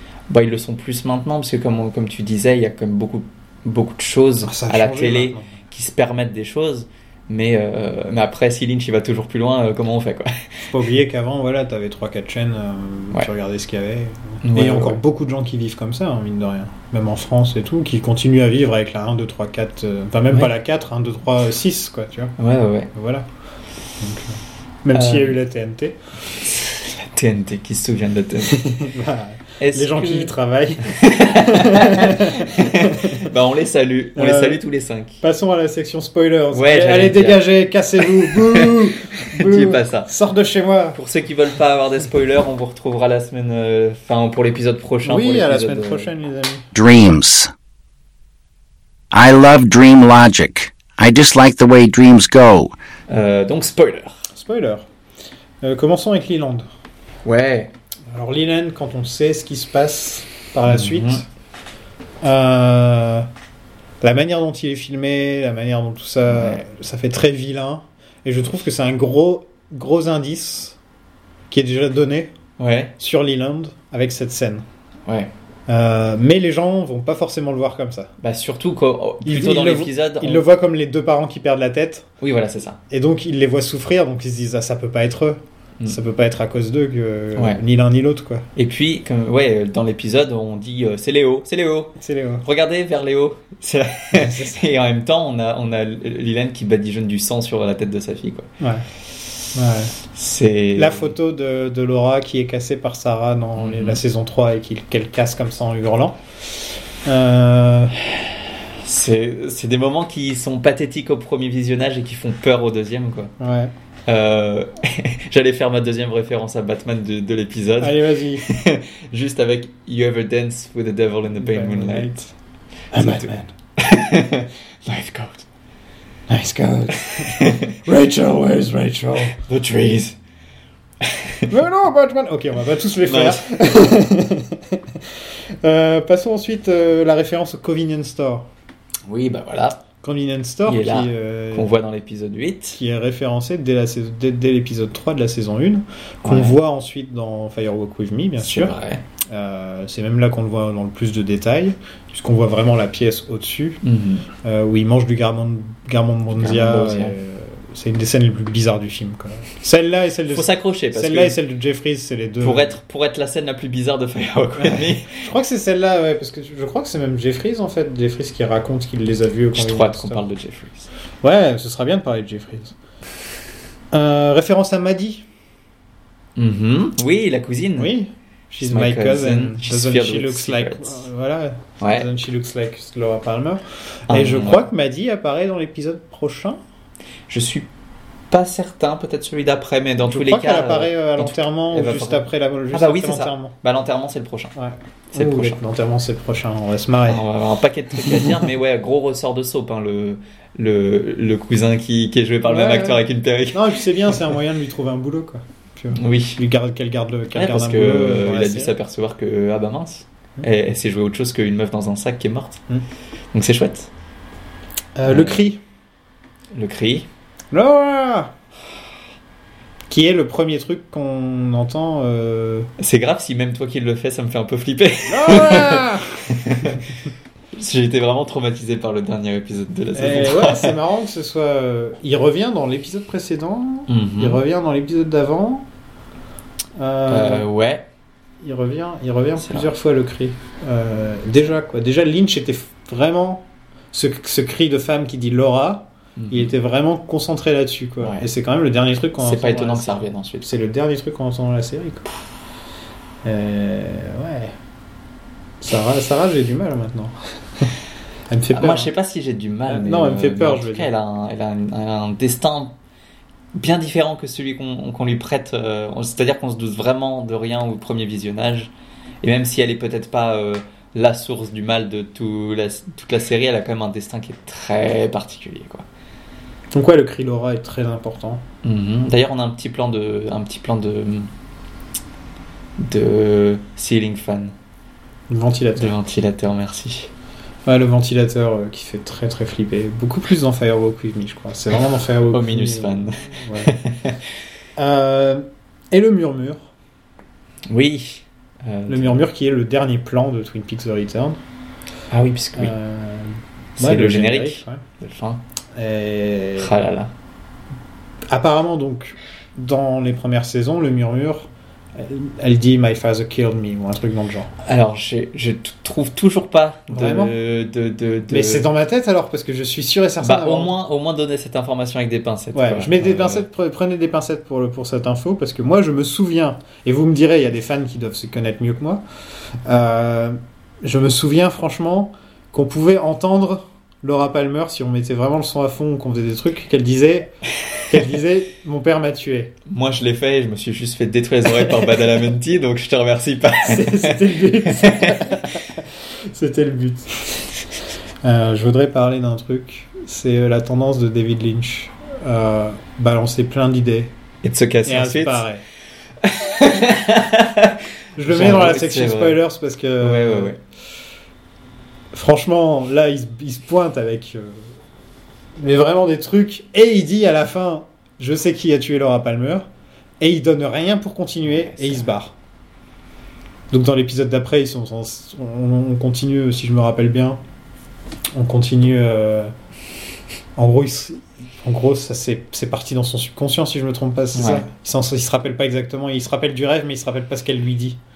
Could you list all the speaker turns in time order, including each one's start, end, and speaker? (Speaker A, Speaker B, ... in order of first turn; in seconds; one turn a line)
Speaker A: 0.3-10.6
Speaker B: 4.4-5.6
Speaker B: 10.7-22.4
Speaker A: 14.4-15.0
Speaker A: 22.4-22.9
Speaker B: 22.9-23.3
Speaker B: 24.0-26.0
Speaker A: 24.9-25.4
Speaker A: 26.4-28.8
Speaker B: 28.5-33.3
Speaker A: 29.6-30.3
Speaker A: 30.9-35.2
Speaker B: 34.2-34.6
Speaker B: 35.2-41.0
Speaker A: 36.5-37.4
Speaker A: 38.0-40.1
Speaker A: 40.9-46.1
Speaker B: 45.0-46.7
Speaker C: 46.8-47.5
Speaker C: 49.1-52.7
Speaker A: 53.1-54.2
Speaker B: 54.3-54.9
Speaker B: 55.6-56.7
Speaker A: 57.2-57.7
Speaker B: 58.1-61.3
Speaker A: 60.7-61.2
Speaker B: 62.2-63.3
Speaker B: 64.0-70.8
Speaker A: 66.3-66.6
Speaker B: 71.5-72.3
Speaker A: 72.6-72.9
Speaker B: 73.0-74.7
Speaker B: 75.7-78.1
Speaker A: 78.2-80.4
Speaker B: 79.2-82.1
Speaker A: 82.2-82.8
Speaker B: 82.9-88.5
Speaker A: 88.6-98.5
Speaker B: 92.0-92.5
Speaker B: 94.1-94.6
Speaker B: 98.6-98.9
Speaker B: 99.5-99.9
Speaker A: 100.1-101.1
Speaker B: 100.8-107.9
Speaker A: 103.6-104.0
Speaker A: 108.8-113.3
Speaker B: 113.4-113.7
Speaker A: 114.1-122.2
Speaker B: 117.8-118.5
Speaker B: 121.4-122.3
Speaker B: 122.9-123.5
Speaker A: 123.0-125.5
Speaker B: 126.3-129.4
Speaker A: 127.2-127.7
Speaker A: 129.4-130.2
Speaker A: 131.0-131.5
Speaker B: 131.5-138.5
Speaker A: 133.1-133.6
Speaker A: 139.1-139.8
Speaker B: 140.0-141.7
Speaker A: 140.7-142.8
Speaker B: 142.8-153.8
Speaker A: 146.2-146.6
Speaker A: 148.4-149.0
Speaker A: 153.8-154.3
Speaker B: 154.4-162.8
Speaker A: 156.4-157.2
Speaker A: 160.3-161.4
Speaker A: 162.4-165.2
Speaker B: 164.6-170.2
Speaker A: 169.5-170.9
Speaker B: 171.2-172.8
Speaker B: 173.9-175.3
Speaker A: 176.4-178.0
Speaker B: 177.8-186.6
Speaker A: 178.6-181.1
Speaker A: 181.8-182.1
Speaker A: 184.1-184.7
Speaker A: 187.3-187.7
Speaker A: 188.3-194.5
Speaker B: 190.1-193.5
Speaker B: 194.6-197.3
Speaker A: 195.1-195.6
Speaker A: 197.1-204.2
Speaker B: 202.5-208.7
Speaker A: 205.9-206.4
Speaker A: 207.3-212.6
Speaker A: 213.3-213.9
Speaker B: 215.0-215.6
Speaker A: 215.1-215.4
Speaker A: 216.5-217.1
Speaker B: 217.5-218.3
Speaker B: 219.9-222.7
Speaker A: 222.8-226.9
Speaker B: 225.1-226.2
Speaker A: 227.6-230.8
Speaker B: 229.9-235.7
Speaker A: 233.9-234.4
Speaker B: 236.8-237.5
Speaker A: 237.1-237.8
Speaker B: 238.4-252.1
Speaker A: 239.4-239.7
Speaker A: 246.2-246.5
Speaker A: 248.0-248.3
Speaker A: 249.2-250.5
Speaker B: 253.2-254.5
Speaker B: 255.6-257.7
Speaker B: 258.3-258.9
Speaker A: 258.5-262.8
Speaker B: 259.7-260.9
Speaker A: 263.6-268.7
Speaker A: 269.2-275.9
Speaker B: 276.7-278.4
Speaker A: 278.6-281.3
Speaker A: 282.8-284.5
Speaker B: 285.3-286.0
Speaker A: 285.8-287.1
Speaker B: 287.7-293.7
Speaker A: 292.3-294.2
Speaker B: 294.8-296.7
Speaker A: 297.7-299.3
Speaker B: 298.9-301.4
Speaker A: 302.1-302.7
Speaker B: 302.6-304.8
Speaker A: 303.8-305.4
Speaker B: 305.8-306.7
Speaker A: 306.6-307.1
Speaker B: 308.3-314.5
Speaker A: 314.6-318.7
Speaker B: 316.9-317.3
Speaker B: 318.3-320.7
Speaker A: 320.2-323.5
Speaker B: 322.6-329.0
Speaker B: 329.7-339.6
Speaker A: 339.7-345.5
Speaker B: 343.6-347.4
Speaker B: 348.2-354.1
Speaker A: 354.4-355.4
Speaker B: 354.9-355.6
Speaker A: 356.2-359.4
Speaker B: 358.2-360.5
Speaker A: 360.0-360.6
Speaker B: 362.1-364.7
Speaker B: 365.6-369.7
Speaker B: 370.2-372.3
Speaker A: 371.6-372.0
Speaker B: 373.7-377.4
Speaker B: 378.3-379.5
Speaker B: 380.6-388.0
Speaker A: 384.4-384.7